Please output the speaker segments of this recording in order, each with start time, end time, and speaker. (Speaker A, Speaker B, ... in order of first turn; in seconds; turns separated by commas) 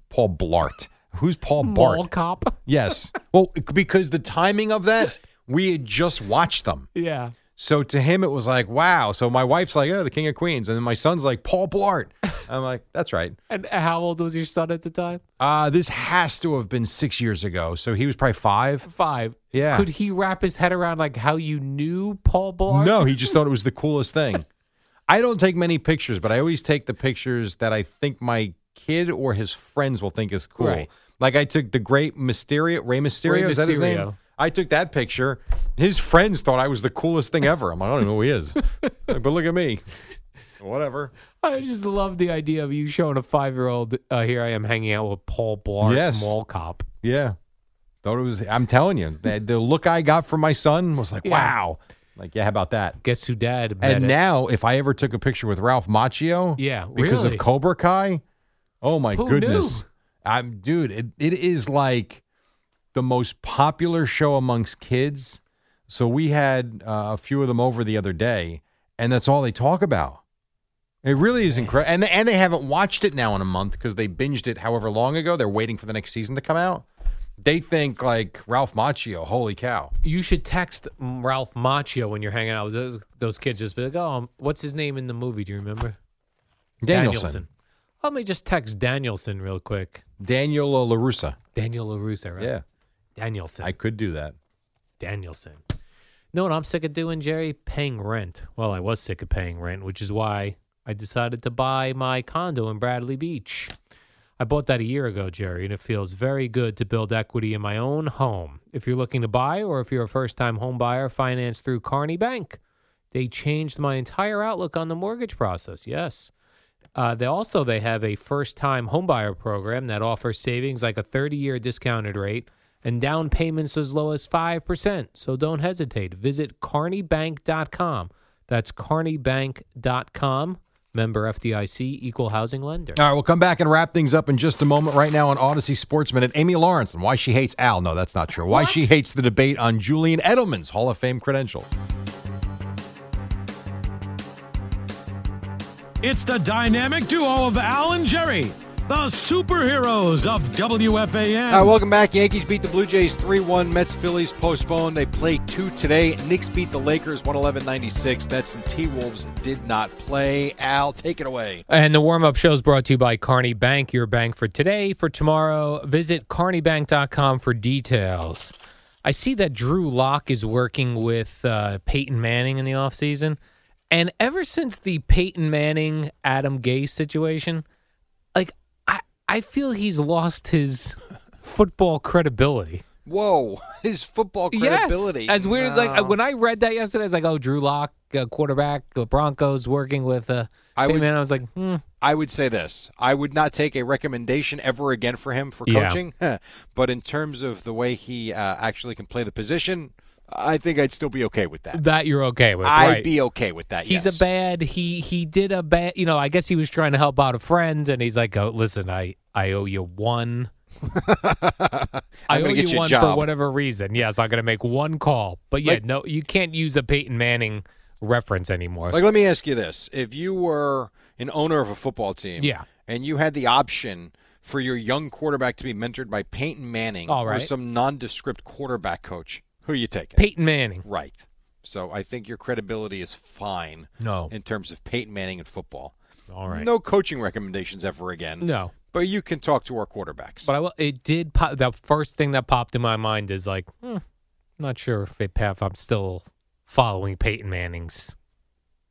Speaker A: 0.1-2.1, Speaker B: 1.6-2.5, Speaker A: 2.6-6.9, Speaker B: 6.9-7.3, Speaker A: 7.5-13.4, Speaker B: 13.5-15.2, Speaker A: 15.4-18.9, Speaker B: 18.9-23.3, Speaker A: 19.5-19.9, Speaker A: 22.7-24.5, Speaker A: 25.1-39.8, Speaker B: 30.6-30.9, Speaker B: 33.2-34.2, Speaker A: 40.6-41.1, Speaker B: 41.4-46.9, Speaker A: 45.8-46.4, Speaker A: 47.0-47.4, Speaker A: 48.0-53.0, Speaker B: 51.2-51.5, Speaker B: 53.0-54.2, Speaker A: 53.8-58.2, Speaker B: 56.6-57.5, Speaker A: 58.8-62.2, Speaker B: 59.1-59.8, Speaker A: 62.9-70.2, Speaker A: 71.0-76.8, Speaker B: 71.3-71.8, Speaker A: 77.4-79.9, Speaker B: 80.0-86.0, Speaker A: 86.8-87.4, Speaker B: 86.9-87.5, Speaker B: 88.0-90.0, Speaker A: 90.2-91.4, Speaker B: 91.5-92.5, Speaker A: 92.4-92.6, Speaker B: 93.2-93.7, Speaker A: 93.6-94.3, Speaker B: 95.0-95.6, Speaker B: 96.3-103.7, Speaker B: 104.4-112.6, Speaker B: 113.1-116.3, Speaker B: 116.9-133.0, Speaker A: 132.9-141.7, Speaker B: 138.5-138.9, Speaker C: 146.0-151.7, Speaker A: 151.5-161.6, Speaker B: 161.7-173.4, Speaker B: 173.9-177.6, Speaker B: 178.3-182.8, Speaker A: 183.1-186.2, Speaker B: 184.5-191.8, Speaker A: 190.8-191.1, Speaker A: 192.0-201.8, Speaker B: 195.7-196.0, Speaker B: 201.7-203.1, Speaker A: 202.6-204.2, Speaker B: 203.8-210.5, Speaker A: 210.9-213.3, Speaker B: 212.3-219.0, Speaker A: 218.9-230.3, Speaker B: 222.4-222.7, Speaker B: 227.1-227.5, Speaker B: 230.2-230.8, Speaker A: 230.8-235.9, Speaker B: 234.0-234.3, Speaker B: 236.3-236.7, Speaker A: 236.5-240.5, Speaker B: 238.4-238.7, Speaker B: 240.4-244.0, Speaker B: 244.6-248.1